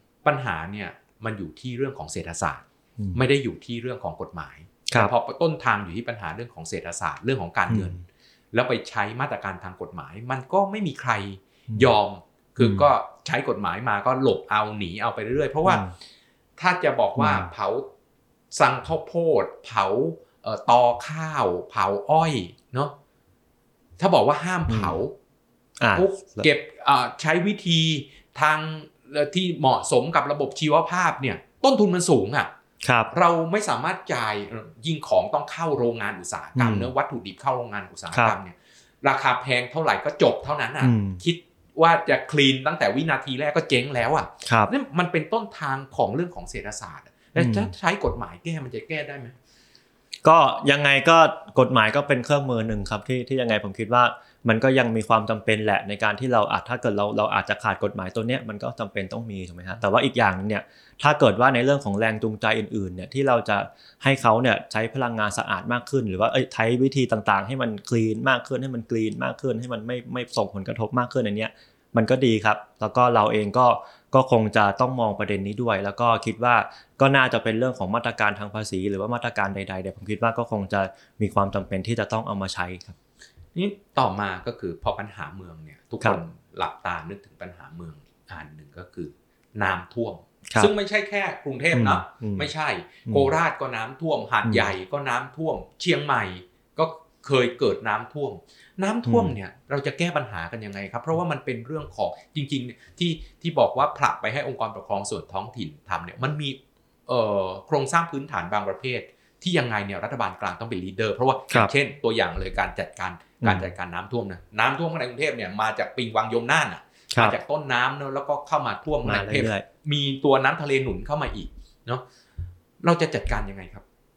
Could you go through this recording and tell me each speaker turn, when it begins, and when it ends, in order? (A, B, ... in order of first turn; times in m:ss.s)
0:00.2-0:15.9 A
0:07.7-0:08.0 B
0:15.7-0:15.9 B
0:16.6-0:17.9 A
0:17.2-0:17.5 B
0:18.5-0:22.9 A
0:24.0-0:25.2 A
0:24.7-0:25.0 B
0:25.8-0:26.5 B
0:25.9-0:32.5 A
0:32.8-0:33.1 B
0:33.1-0:49.4 A
0:36.6-0:36.9 B
0:40.8-0:41.2 B
0:44.4-0:44.7 B
0:47.4-0:47.7 B
0:50.2-1:23.0 B
1:23.6-2:02.0 A
1:31.7-1:32.5 B
1:33.1-1:33.3 B
1:39.1-1:39.4 B
1:53.4-1:53.7 B
1:59.0-1:59.7 B
2:02.8-2:03.8 A